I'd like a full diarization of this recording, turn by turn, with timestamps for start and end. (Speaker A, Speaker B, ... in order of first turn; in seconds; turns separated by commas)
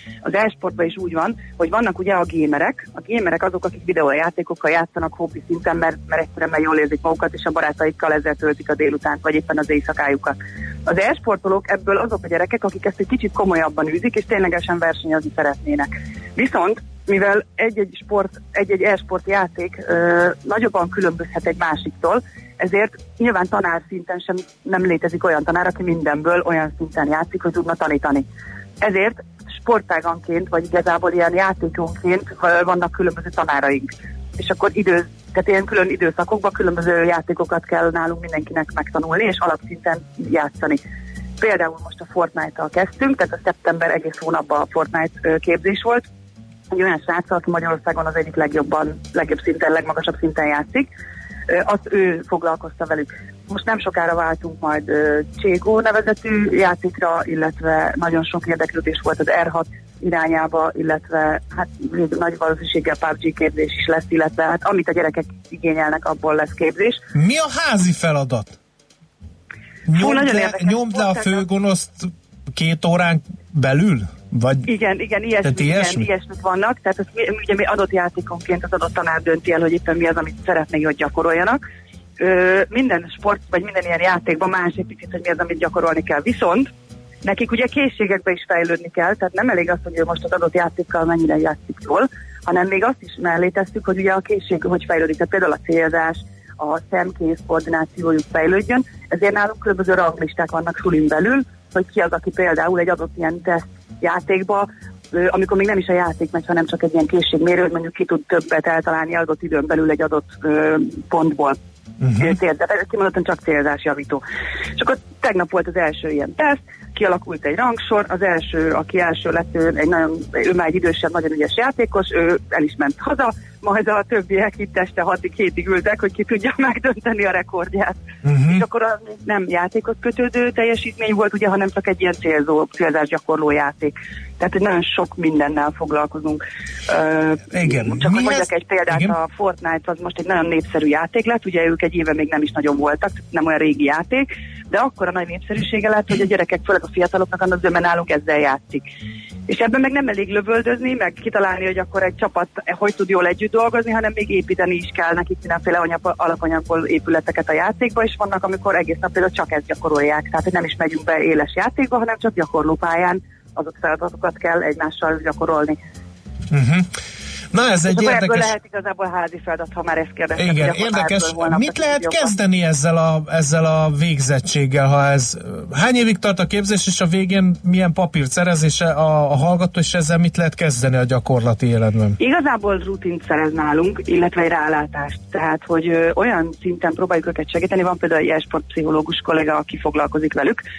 Speaker A: 0.2-28.2, Speaker A: 28.8-40.8, Speaker A: 41.4-46.0, Speaker A: 46.7-50.9, Speaker A: 51.5-67.0, Speaker B: 67.1-68.5, Speaker B: 69.9-74.7, Speaker A: 69.9-71.4, Speaker A: 74.7-81.6, Speaker B: 75.4-76.1, Speaker A: 82.2-86.7, Speaker A: 87.2-111.6, Speaker B: 112.0-112.3, Speaker A: 112.1-114.2, Speaker A: 114.8-148.8, Speaker B: 128.2-128.6, Speaker B: 137.5-139.2, Speaker A: 149.5-165.8, Speaker B: 166.5-166.9, Speaker B: 167.5-168.5, Speaker A: 167.9-172.3, Speaker B: 170.4-182.2, Speaker A: 182.2-190.6